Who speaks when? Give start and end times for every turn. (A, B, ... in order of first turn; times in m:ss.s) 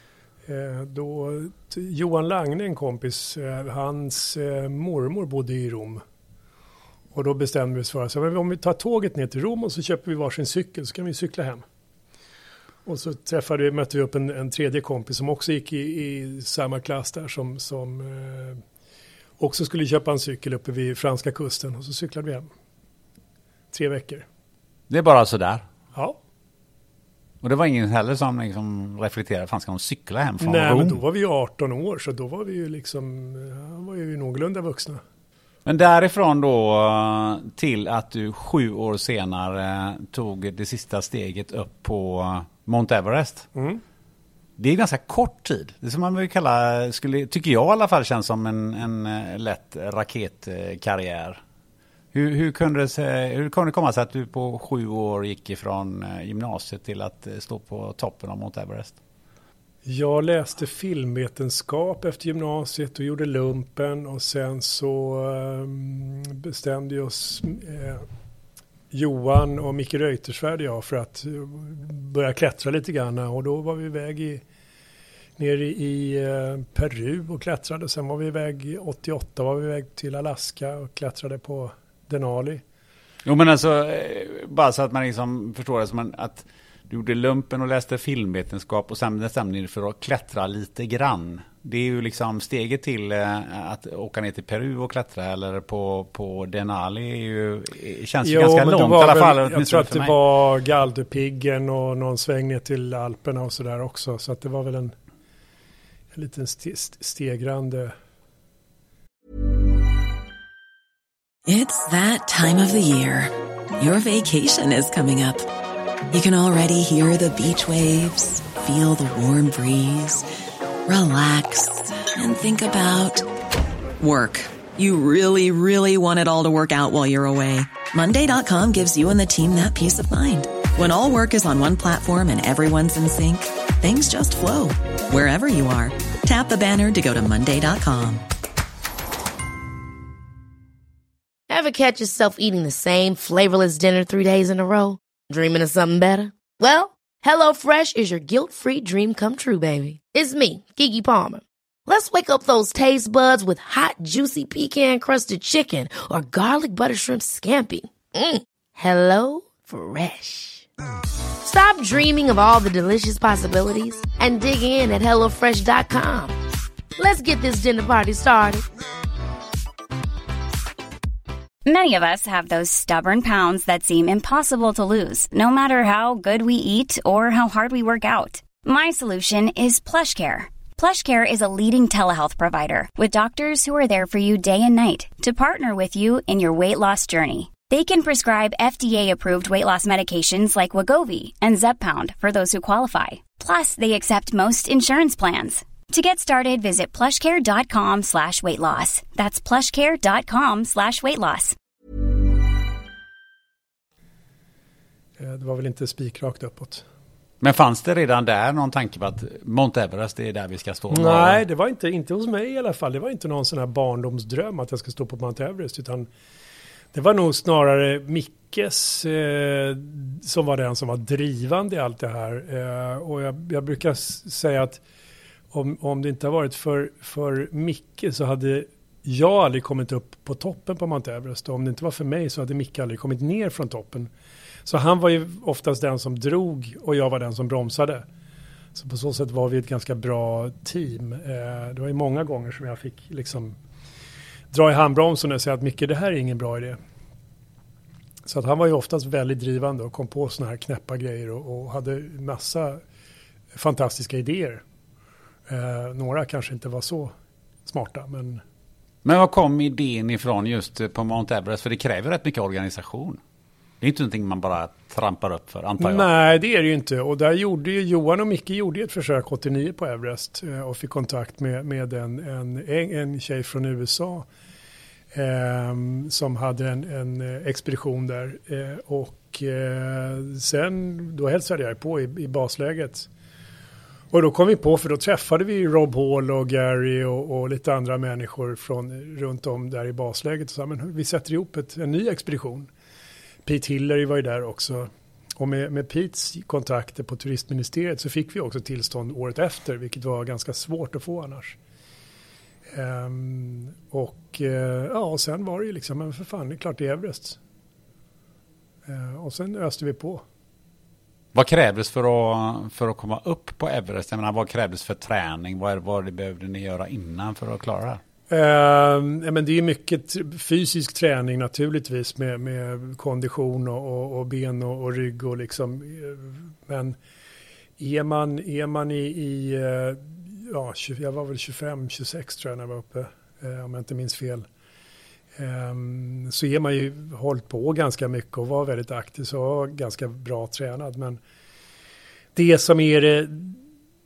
0:00.4-0:06.0 A
0:07.1-0:11.6 A
0:12.8-0:18.6 A
0:19.4-0:22.5 A
0:23.7-0:24.2 A
0:24.9-0:25.6 B
0:25.9-0:26.2 A
0:27.4-0:31.0 B
0:30.4-0:35.0 A
0:35.6-0:43.5 B
0:43.5-0:43.8 A
0:44.6-0:51.4 B
0:52.1-0:59.0 B
0:59.8-1:08.0 A
1:08.9-1:14.4 A
1:15.4-1:22.6 A
1:23.2-1:40.2 B
1:38.2-1:44.9 A
1:46.1-1:47.9 A
1:51.5-1:55.5 C
1:56.1-2:00.2 C
2:00.9-2:03.3 C
2:04.0-2:18.2 C
2:21.5-2:40.7 D
2:41.4-2:46.4 D
2:47.0-2:48.6 D
2:51.6-3:21.6 E
3:25.2-3:26.8 A
3:27.4-3:31.4 B
3:30.9-3:36.1 A
3:36.9-3:44.8 A
3:45.5-3:54.1 A
3:54.6-3:58.0 A
3:58.7-4:03.6 A
4:04.5-4:06.8 A
4:08.2-4:12.8 A
4:13.5-4:14.6 A
4:15.5-4:17.1 A
4:17.6-4:18.4 A
4:19.0-4:23.2 B
4:23.8-4:26.1 B
4:25.8-4:34.2 A
4:35.1-4:43.1 A
4:44.1-4:52.7 A
4:53.4-5:01.6 A
5:02.7-5:07.4 A
5:08.8-5:10.2 A
5:11.3-5:18.0 B
5:18.3-5:27.0 A
5:27.8-5:34.4 A
5:35.4-5:41.2 A
5:42.3-5:43.6 A